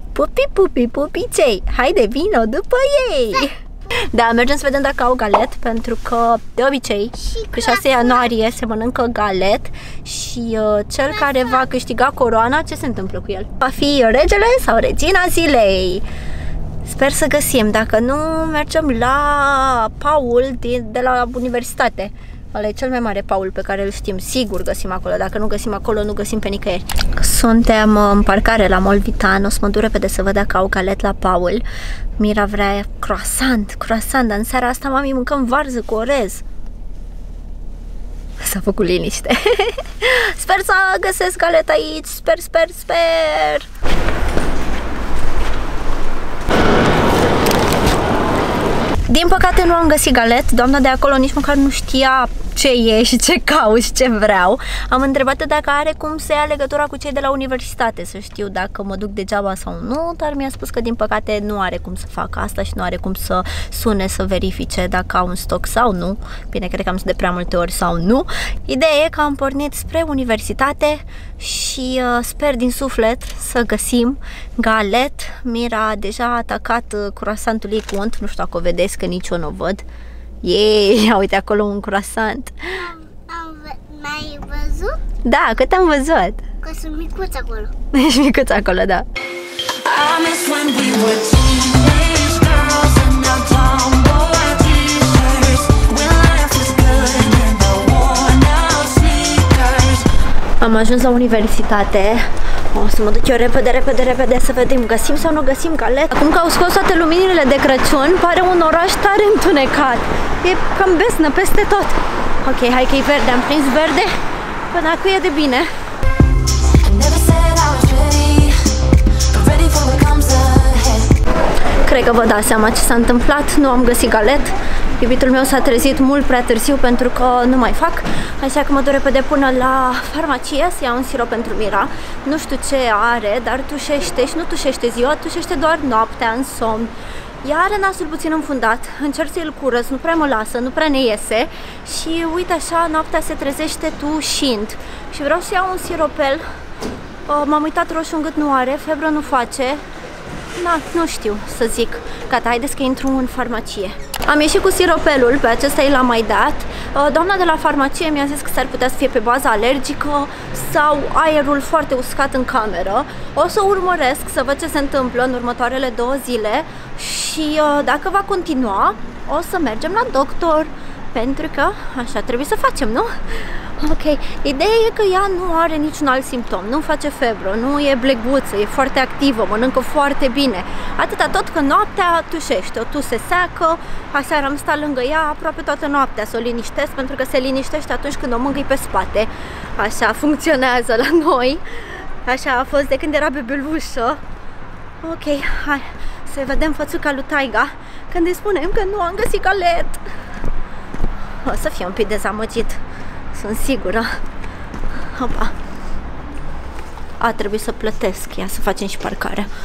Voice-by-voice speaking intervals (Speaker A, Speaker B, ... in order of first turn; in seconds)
Speaker A: 0.1-16.1, 16.9-31.6, 32.2-36.4, 38.4-43.7, 49.1-79.9, 80.4-82.7, 85.2-86.5, 87.9-89.1, 100.6-114.2, 114.7-115.7, 121.8-146.4, 147.3-149.8, 150.6-194.2, 195.0-200.0, 201.4-202.8, 203.3-204.1, 205.1-205.6, 207.2-209.5
Speaker B: 7.2-8.3, 11.0-11.7, 82.8-85.0, 86.6-87.7
Speaker C: 89.8-100.1, 116.8-121.2